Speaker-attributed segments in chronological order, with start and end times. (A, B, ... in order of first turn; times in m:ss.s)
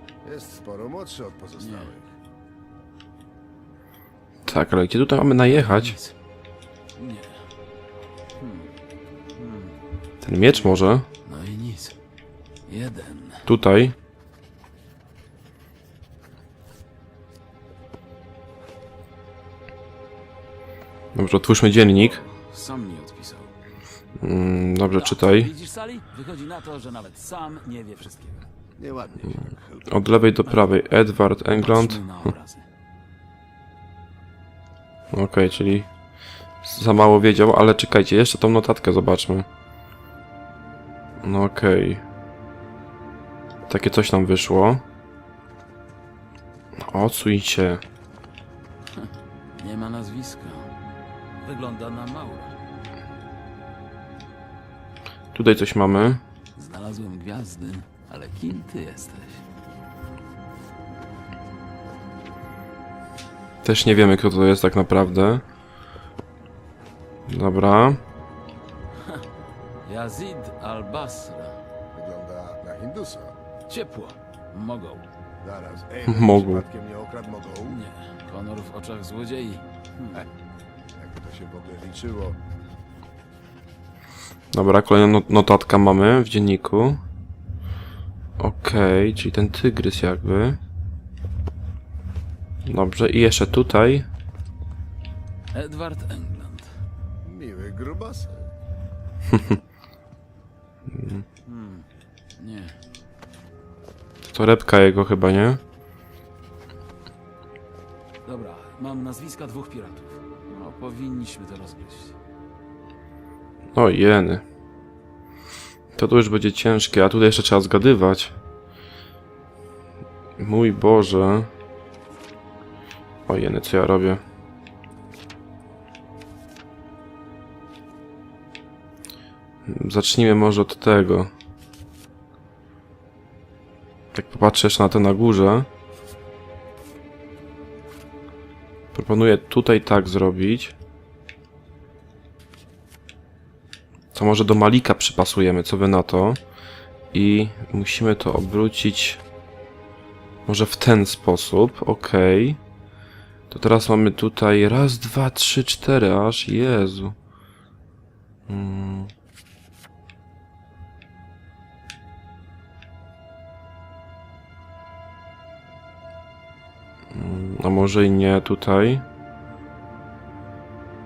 0:00.2-0:02.1 A
0:01.6-0:01.9 B
0:04.4-0:06.0 C
0:05.5-0:06.1 B
0:07.0-0:07.4 B
0:08.4-0:08.7 B
0:09.4-0:09.8 B
0:10.2-0:11.1 C
0:11.2-0:11.9 B
0:12.7-0:13.5 B
0:13.4-0:14.0 C
0:21.1-0:22.2 C
0:21.9-0:23.5 B
0:24.2-0:25.5 C
0:24.9-0:28.5 B
0:28.8-0:29.9 A
0:29.9-0:32.1 C
0:31.5-0:32.6 B
0:35.1-0:35.9 C
0:36.6-0:39.5 C
0:41.2-0:42.0 C
0:43.7-0:44.8 C
0:46.8-0:47.8 C
0:48.9-0:50.7 B
0:51.4-0:52.6 B
0:55.3-0:56.2 C
0:56.6-0:59.4 B
1:03.6-1:05.4 C
1:07.3-1:08.0 C
1:09.8-1:11.6 B
1:11.9-1:13.4 A
1:13.7-1:15.1 B
1:15.4-1:17.8 A
1:16.1-1:16.6 C
1:17.7-1:20.2 B
1:21.0-1:22.4 A
1:24.5-1:27.0 C
1:28.4-1:30.6 C
1:32.6-1:34.1 C
1:35.5-1:36.7 B
1:37.2-1:38.4 A
1:39.3-1:39.6 C
1:40.9-1:41.2 C
1:41.4-1:42.8 B
1:44.2-1:45.6 C
1:48.2-1:52.2 B
1:53.7-1:54.4 C
1:55.9-1:58.4 C
2:00.4-2:01.5 C
2:03.3-2:04.2 C
2:09.6-2:11.3 C
2:14.1-2:15.7 C
2:18.9-2:20.8 C
2:24.1-2:26.4 C
2:27.1-2:29.2 C
2:30.4-2:32.6 C
2:33.5-2:37.2 C
2:38.5-2:39.1 C
2:47.1-2:49.0 C